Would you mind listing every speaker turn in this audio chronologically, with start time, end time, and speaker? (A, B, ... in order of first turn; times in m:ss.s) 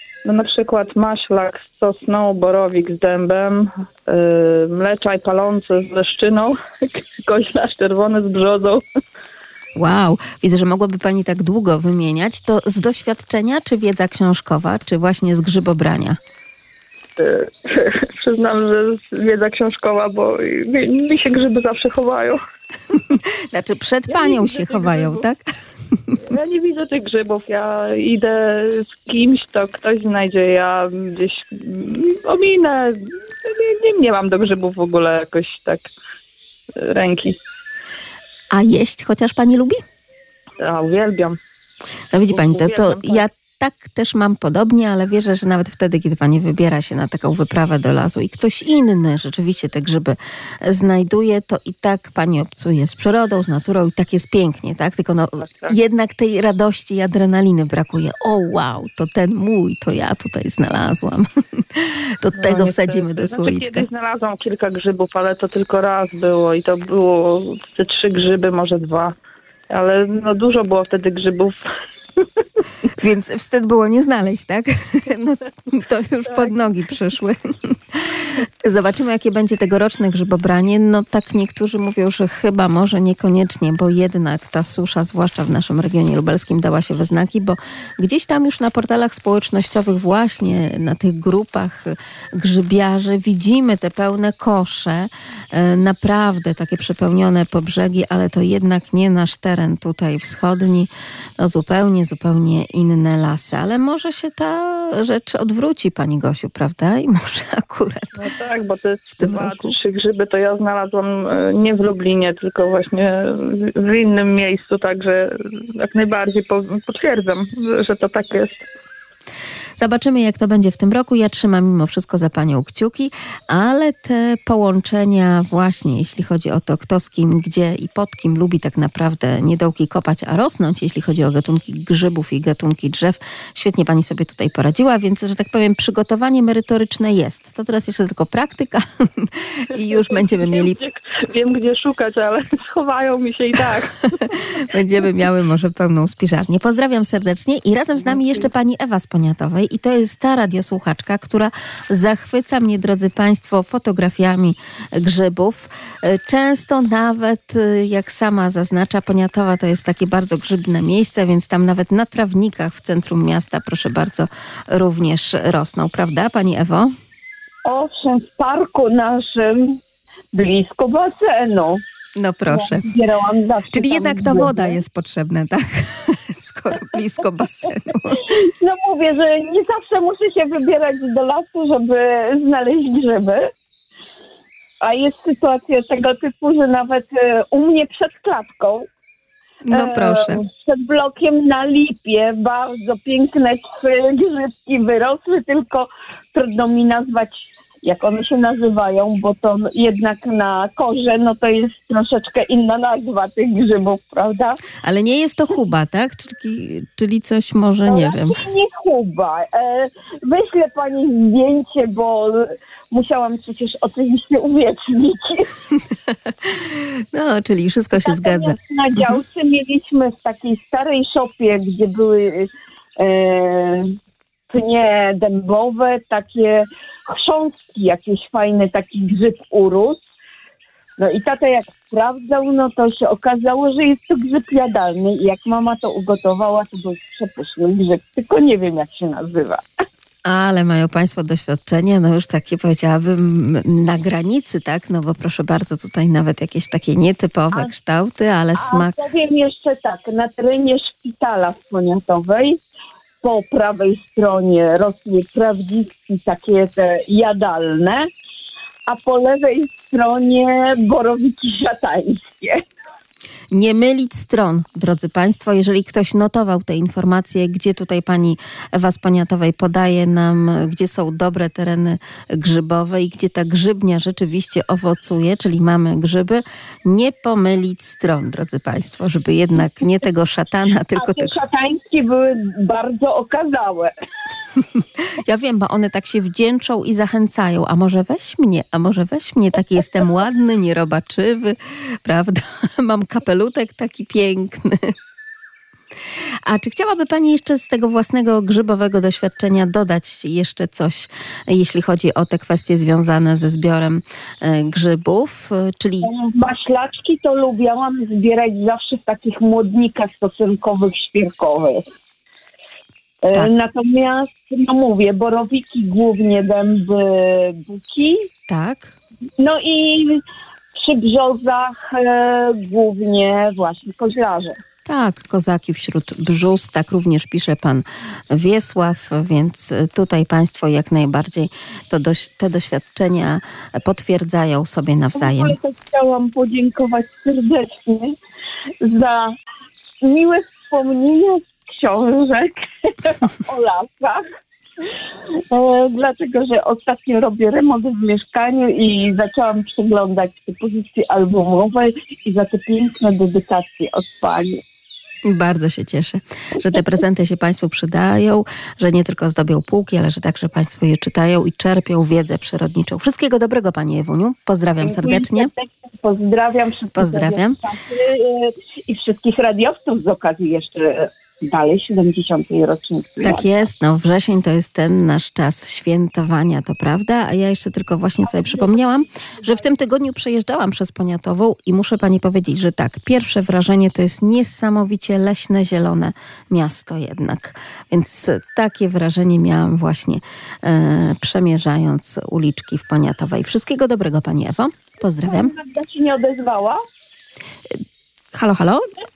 0:00.2-0:08.9 A
0:09.8-0:16.2 B
0:17.2-0:22.4 A
0:23.5-0:25.4 B
0:24.1-0:25.2 A
0:26.2-0:35.9 A
0:36.8-0:37.4 A
0:38.5-0:39.8 B
0:40.6-0:41.4 A
0:42.1-1:03.9 B
0:42.3-0:43.2 A
0:55.4-0:55.7 A
1:02.4-1:09.2 A
1:09.7-1:11.6 A
1:13.0-1:48.2 B
1:48.2-1:58.6 A
1:49.2-1:49.8 B
1:59.8-2:20.8 B
2:19.7-2:24.6 A
2:24.6-2:46.9 B
2:47.6-2:49.8 C
2:50.3-2:51.8 C
2:52.2-2:52.9 B
2:52.5-2:54.8 C
2:53.7-2:58.3 B
2:58.2-3:03.5 C
3:04.8-3:08.9 C
3:09.7-3:10.4 B
3:09.7-3:24.6 C
3:24.8-3:28.4 B
3:27.8-3:35.5 C
3:36.4-3:39.2 B
3:38.0-3:44.0 C
3:44.5-3:50.0 C
3:51.0-3:59.6 C
4:00.2-4:09.0 B
4:08.6-4:12.6 C
4:13.2-4:18.1 C
4:18.9-4:22.6 C
4:23.5-4:41.4 B
4:41.0-4:43.9 C
4:45.2-4:54.9 B
4:56.5-5:06.1 B
5:06.0-5:11.8 C
5:13.2-5:18.3 C
5:18.5-5:18.9 B
5:19.4-5:20.2 C
5:20.7-5:24.6 C
5:24.9-5:35.6 B
5:35.2-5:38.2 C
5:38.8-5:39.4 C
5:40.0-5:44.2 C
5:45.5-5:54.6 C
5:55.3-6:05.5 B
6:04.8-6:13.7 C
6:07.0-6:07.6 B
6:13.2-6:35.5 B
6:18.3-6:18.8 C
6:35.2-6:36.8 C
6:38.3-6:38.9 B